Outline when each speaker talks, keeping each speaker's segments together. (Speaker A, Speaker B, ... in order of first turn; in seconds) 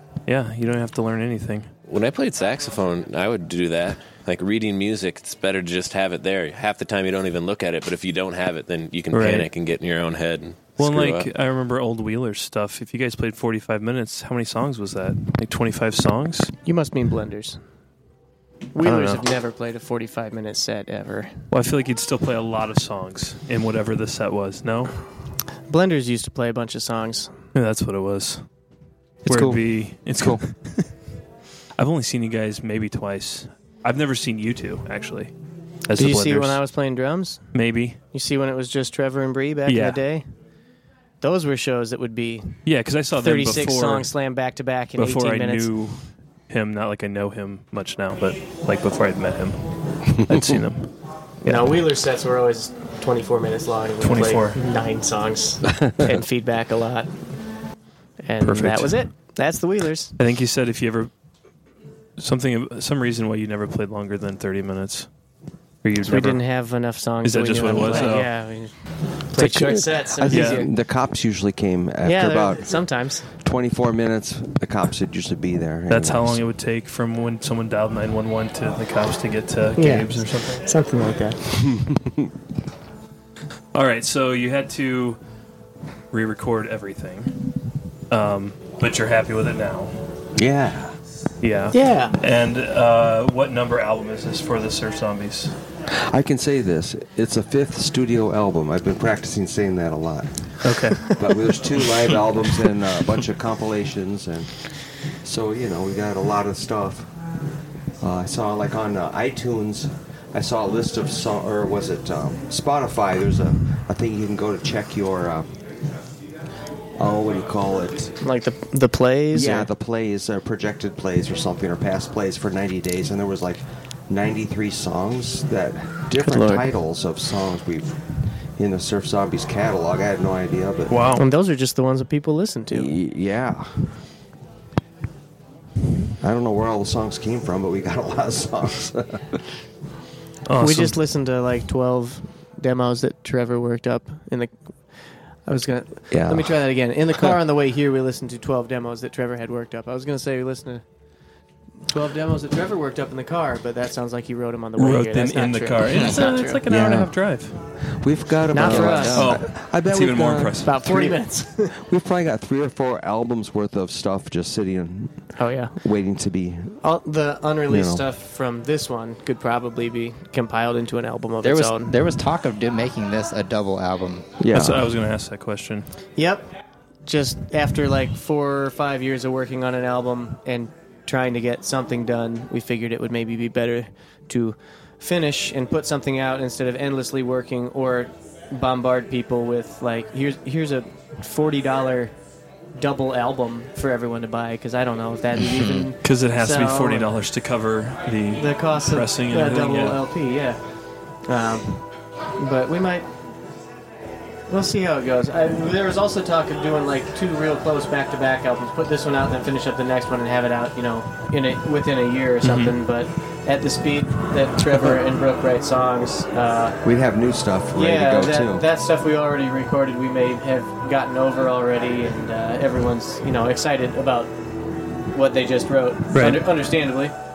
Speaker A: 0.2-1.7, 9.1-9.5, 10.8-16.5, 18.8-19.2, 21.5-24.9, 27.5-28.4, 29.2-30.9, 31.8-36.6, 37.5-38.0, 39.6-40.0, 42.6-44.1, 45.0-50.9, 51.4-51.7, 54.0-54.6, 58.4-59.0, 60.2-61.1, 62.2-65.1, 65.8-66.4, 67.2-68.3, 70.3-70.6, 75.9-80.7, 83.7-85.2, 86.1-87.4, 88.1-89.9, 91.4-95.5, 100.6-101.0, 130.9-131.2, 140.4-140.9, 154.8-157.6, 158.7-161.2, 174.5-175.8, 196.0-200.0, 212.4-212.7, 226.1-226.4
Speaker B: 1.9-11.3
Speaker C: 16.6-17.6, 18.7-21.3, 25.7-27.3, 36.0-37.5, 38.1-40.2, 41.2-42.6, 43.2-45.7, 51.4-57.1, 58.2-60.1, 66.0-70.7, 72.0-73.3, 79.8-81.4, 91.7-92.2, 118.2-119.7, 126.2-126.7, 131.1-132.9, 140.6-144.5, 145.4-150.8, 151.9-156.6, 158.5-159.3, 160.6-161.8, 165.4-165.7, 166.8-171.9, 176.2-176.5, 177.1-192.1, 192.8-197.1, 198.3-200.6, 201.2-201.8, 202.4-203.1, 204.5-216.8, 217.7-224.3, 225.1-227.1
Speaker D: 29.2-29.6, 50.2-50.6, 55.8-56.1, 69.3-76.4, 81.5-82.3, 90.3-90.9, 95.9-104.6, 105.2-107.1, 108.0-115.5, 117.0-118.1, 119.3-128.0, 128.6-131.0, 132.7-133.7, 136.2-139.4, 146.1-146.6, 156.7-157.1, 157.9-161.0, 161.7-166.8, 167.7-168.0, 174.4-174.9, 216.8-218.7
Speaker E: 171.4-174.3, 195.4-195.9